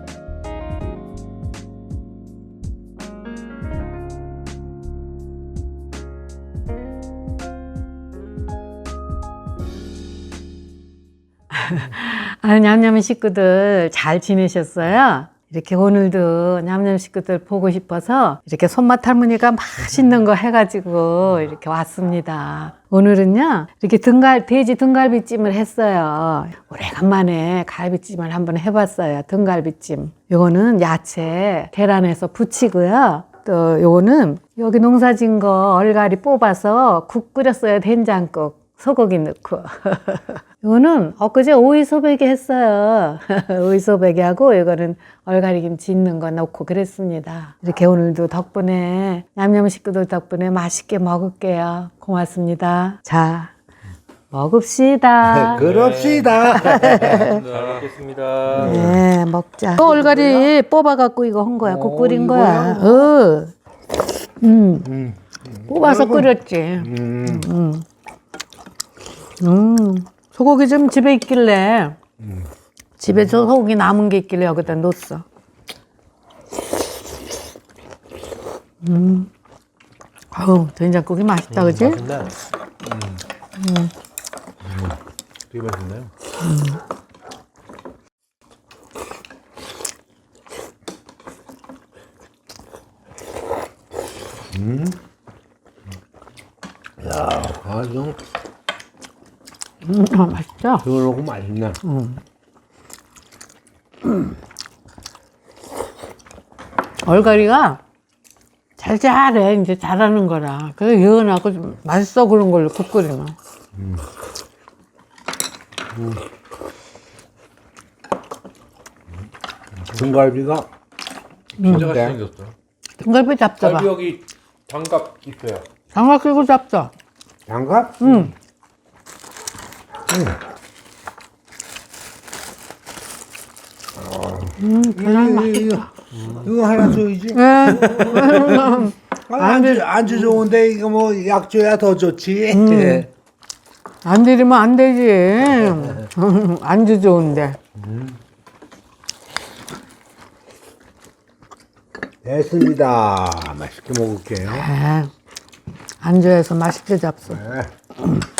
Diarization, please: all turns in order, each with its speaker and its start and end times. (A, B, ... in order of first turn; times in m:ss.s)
0:11.5-0:53.5 A
0:54.3-0:55.6 A
0:55.2-0:57.8 B
0:55.5-0:58.9 C
0:56.5-0:57.4 A
0:58.5-0:59.0 B
0:58.6-1:03.5 A
0:59.8-1:00.5 C
1:01.6-1:03.1 B
1:04.4-1:04.9 A
1:04.8-1:07.5 B
1:05.7-1:07.8 A
1:09.4-1:12.0 A
1:12.2-1:12.5 B
1:13.0-1:15.2 A
1:18.8-1:19.3 A
1:20.3-1:22.0 A
1:21.5-1:22.3 C
1:22.8-1:23.2 C
1:23.6-1:23.9 A
1:25.5-1:26.1 C
1:26.4-1:26.8 A
1:34.5-1:35.0 B
1:37.0-1:38.2 B
1:39.8-1:40.8 A
1:40.8-1:41.8 B
1:41.8-1:42.2 A
1:47.0-1:47.8 A
1:48.8-1:53.4 A
1:53.7-1:54.0 B
1:55.9-1:56.2 B
1:59.8-2:00.7 B
2:01.6-2:02.5 C
2:01.6-2:01.8 A
2:01.6-2:02.2 B
2:03.0-2:03.9 A
2:03.6-2:05.7 C
2:05.9-2:06.9 A
2:07.5-2:08.3 B
2:08.0-2:08.3 A
2:10.1-2:10.4 B
2:13.9-2:15.9 B
2:14.6-2:15.9 A
2:16.1-2:16.5 C
2:16.4-2:23.1 B
2:17.3-2:20.2 A
2:22.5-2:23.0 A
2:24.0-2:27.6 A
2:25.6-2:26.0 B
2:27.8-2:28.2 B
2:32.2-2:34.7 B
2:34.5-2:35.1 A
2:36.0-2:37.4 A
2:37.3-2:37.7 B